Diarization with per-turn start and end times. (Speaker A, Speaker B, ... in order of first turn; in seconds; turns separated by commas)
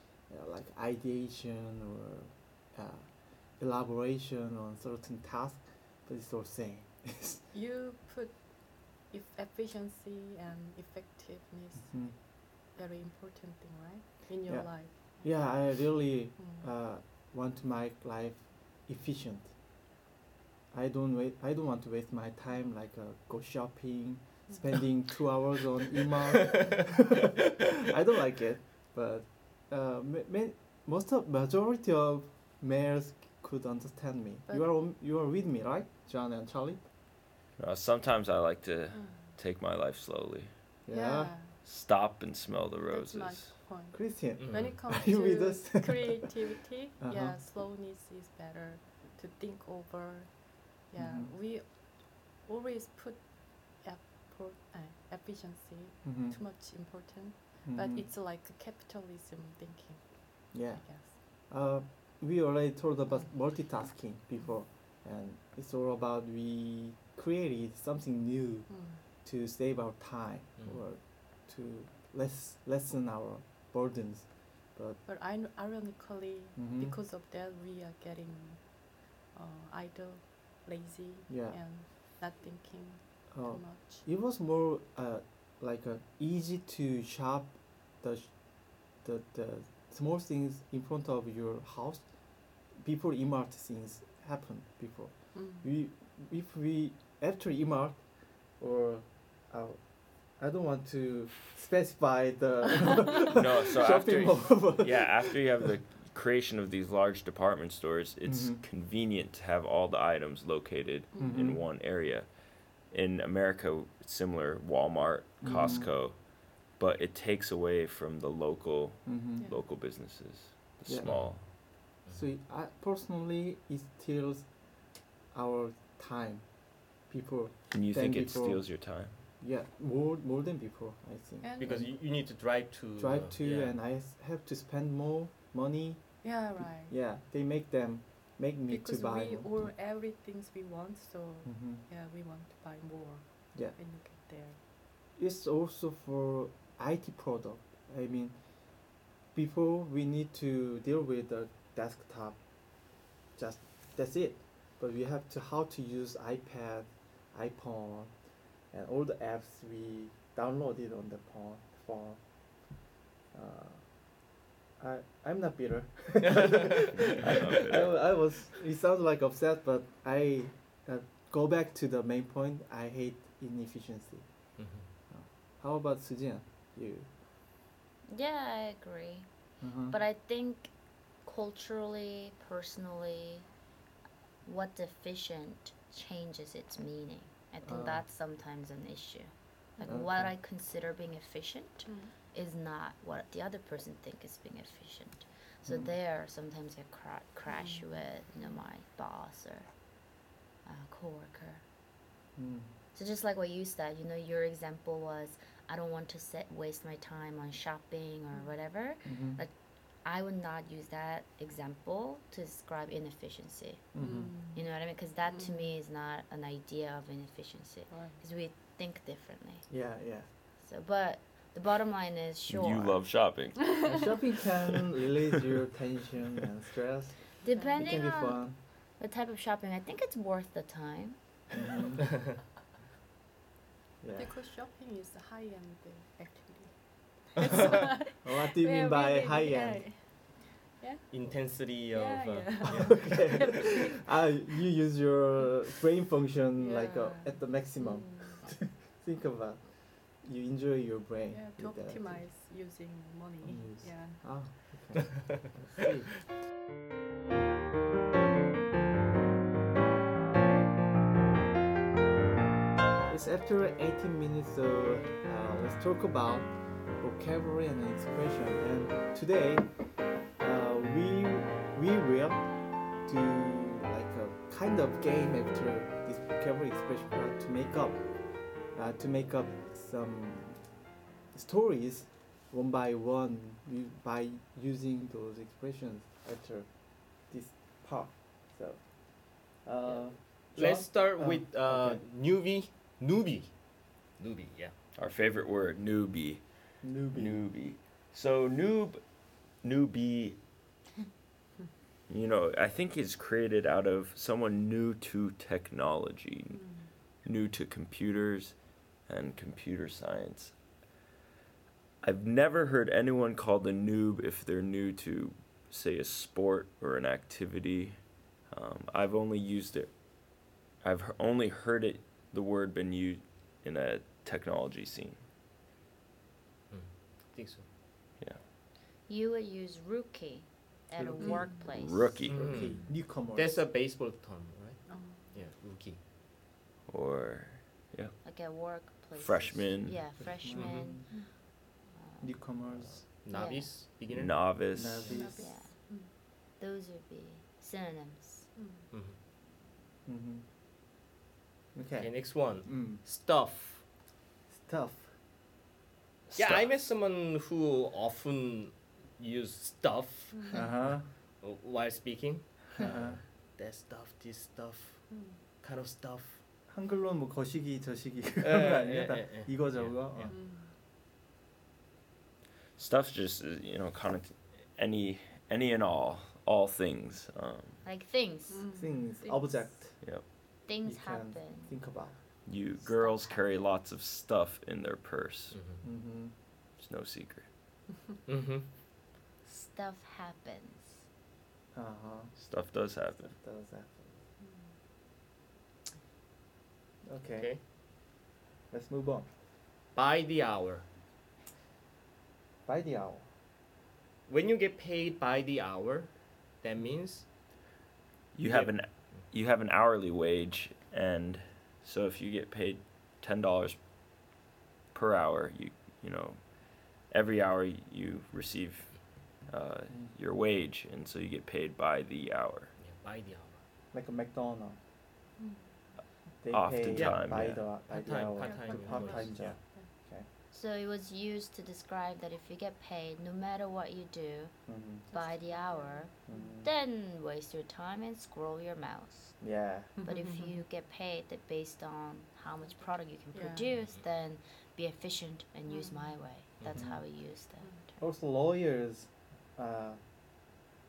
Speaker A: 0.3-7.4, Speaker B: 7.5-15.6, Speaker A: 11.8-12.2, Speaker A: 14.4-19.5, Speaker B: 16.4-16.6, Speaker A: 20.7-36.8, Speaker B: 24.5-24.7, Speaker C: 37.6-40.5, Speaker B: 39.0-39.2, Speaker A: 40.9-41.3, Speaker B: 40.9-41.5, Speaker C: 41.6-43.6, Speaker B: 42.9-61.1, Speaker A: 43.9-46.3, Speaker D: 44.4-44.8, Speaker A: 47.0-47.4, Speaker A: 51.0-51.3, Speaker A: 56.0-56.4, Speaker A: 57.6-58.0, Speaker A: 60.5-75.0, Speaker B: 68.7-69.0, Speaker D: 70.6-70.8, Speaker B: 75.0-84.0, Speaker A: 76.5-77.0, Speaker A: 81.3-81.8, Speaker A: 83.3-98.0, Speaker B: 95.3-95.7, Speaker A: 98.6-105.4, Speaker C: 103.3-112.3, Speaker A: 108.2-108.6, Speaker B: 111.1-111.5, Speaker A: 111.2-111.6, Speaker C: 112.9-121.4, Speaker A: 115.4-115.9, Speaker A: 119.0-119.5, Speaker A: 120.9-121.5, Speaker D: 121.0-121.3, Speaker A: 122.1-124.5, Speaker A: 125.3-126.5, Speaker A: 127.0-128.6, Speaker C: 127.7-129.2, Speaker A: 129.4-132.0, Speaker B: 131.4-131.8, Speaker D: 131.6-133.8, Speaker A: 132.9-139.5, Speaker B: 136.2-136.9, Speaker B: 138.7-144.6, Speaker A: 141.4-141.8, Speaker A: 145.2-152.4, Speaker A: 153.3-158.1, Speaker A: 158.7-162.2, Speaker A: 163.3-164.0, Speaker A: 164.8-174.2, Speaker D: 166.2-166.9, Speaker C: 166.9-168.0, Speaker D: 174.6-174.8, Speaker A: 175.1-177.1, Speaker E: 178.1-179.3, Speaker A: 179.6-180.0, Speaker E: 179.9-183.4, Speaker E: 184.4-199.7, Speaker A: 187.6-188.0, Speaker A: 189.8-190.3, Speaker B: 191.8-192.1, Speaker A: 195.7-195.9, Speaker B: 197.5-198.5, Speaker E: 200.6-201.6, Speaker A: 202.3-202.7, Speaker E: 202.9-209.5, Speaker A: 209.0-209.4, Speaker E: 210.0-219.7, Speaker A: 213.9-214.3, Speaker B: 214.0-214.7, Speaker B: 215.3-215.7, Speaker B: 217.9-218.2, Speaker A: 219.7-220.3, Speaker E: 220.6-223.0, Speaker C: 222.5-223.9, Speaker A: 223.8-228.6, Speaker E: 227.4-228.4, Speaker E: 229.0-231.2, Speaker A: 231.5-232.0, Speaker A: 234.0-234.3, Speaker B: 234.1-241.1, Speaker A: 237.6-240.1, Speaker D: 241.1-243.2, Speaker B: 241.9-244.1, Speaker A: 242.7-252.2, Speaker B: 246.6-248.4, Speaker B: 251.3-254.6, Speaker A: 253.4-256.1, Speaker A: 263.1-269.7, Speaker A: 270.4-272.4, Speaker A: 273.0-278.0, Speaker A: 278.7-280.7, Speaker A: 281.3-292.0, Speaker D: 290.5-294.7, Speaker C: 294.9-296.4, Speaker A: 296.8-297.4, Speaker C: 297.1-299.0, Speaker C: 299.6-300.4, Speaker C: 302.1-310.5, Speaker B: 306.5-306.9, Speaker C: 312.0-318.0, Speaker C: 318.5-319.9, Speaker C: 320.8-325.2, Speaker D: 326.7-327.7, Speaker E: 329.1-332.3, Speaker A: 330.9-331.5, Speaker B: 331.2-331.6, Speaker C: 331.7-332.7, Speaker D: 332.2-336.0, Speaker A: 332.3-333.6, Speaker B: 334.9-335.4, Speaker C: 336.9-338.2, Speaker E: 338.2-341.3, Speaker C: 339.1-340.0, Speaker A: 340.2-341.1, Speaker D: 340.5-341.0, Speaker E: 341.9-342.3, Speaker A: 342.2-343.0, Speaker D: 342.8-345.1, Speaker E: 343.3-343.7, Speaker C: 344.1-345.2, Speaker A: 344.7-345.6, Speaker B: 345.1-346.1, Speaker E: 345.4-348.5, Speaker B: 348.6-348.9, Speaker D: 348.9-349.2, Speaker A: 350.1-350.4, Speaker A: 351.7-353.0, Speaker D: 352.0-353.8, Speaker A: 354.5-355.1, Speaker C: 356.3-356.7, Speaker D: 356.3-360.6, Speaker B: 360.3-360.7, Speaker A: 360.5-361.1, Speaker D: 361.4-366.4, Speaker A: 362.8-363.2, Speaker B: 365.1-365.4, Speaker A: 366.7-370.4, Speaker D: 368.4-370.3, Speaker B: 370.3-370.7, Speaker C: 372.8-377.8, Speaker E: 377.8-378.7, Speaker B: 378.5-379.7, Speaker A: 378.7-380.3, Speaker C: 380.0-380.2, Speaker E: 380.6-381.7, Speaker A: 380.8-382.2, Speaker C: 382.4-385.6, Speaker E: 382.8-383.6, Speaker D: 385.5-385.8, Speaker A: 385.8-386.3, Speaker C: 386.8-387.5, Speaker D: 388.2-388.7, Speaker E: 389.4-391.0, Speaker A: 391.7-392.3, Speaker C: 392.4-393.3, Speaker A: 393.1-394.2, Speaker A: 397.0-397.6, Speaker A: 398.7-399.3, Speaker D: 399.9-400.8, Speaker A: 402.6-403.2, Speaker D: 404.3-407.3, Speaker C: 408.3-413.8, Speaker D: 408.4-409.2, Speaker C: 414.9-422.7, Speaker D: 422.8-423.6, Speaker A: 423.9-424.8, Speaker B: 425.4-425.6, Speaker A: 426.4-430.2, Speaker C: 426.5-427.6, Speaker D: 426.9-429.6, Speaker B: 428.4-429.9, Speaker E: 430.5-434.6, Speaker A: 434.7-435.1, Speaker B: 435.1-436.5, Speaker E: 435.1-439.4, Speaker A: 436.3-436.7, Speaker A: 439.4-439.9, Speaker B: 440.0-440.6, Speaker E: 440.0-447.9, Speaker B: 443.3-443.7, Speaker B: 445.7-446.1, Speaker D: 446.6-446.9, Speaker A: 448.0-450.0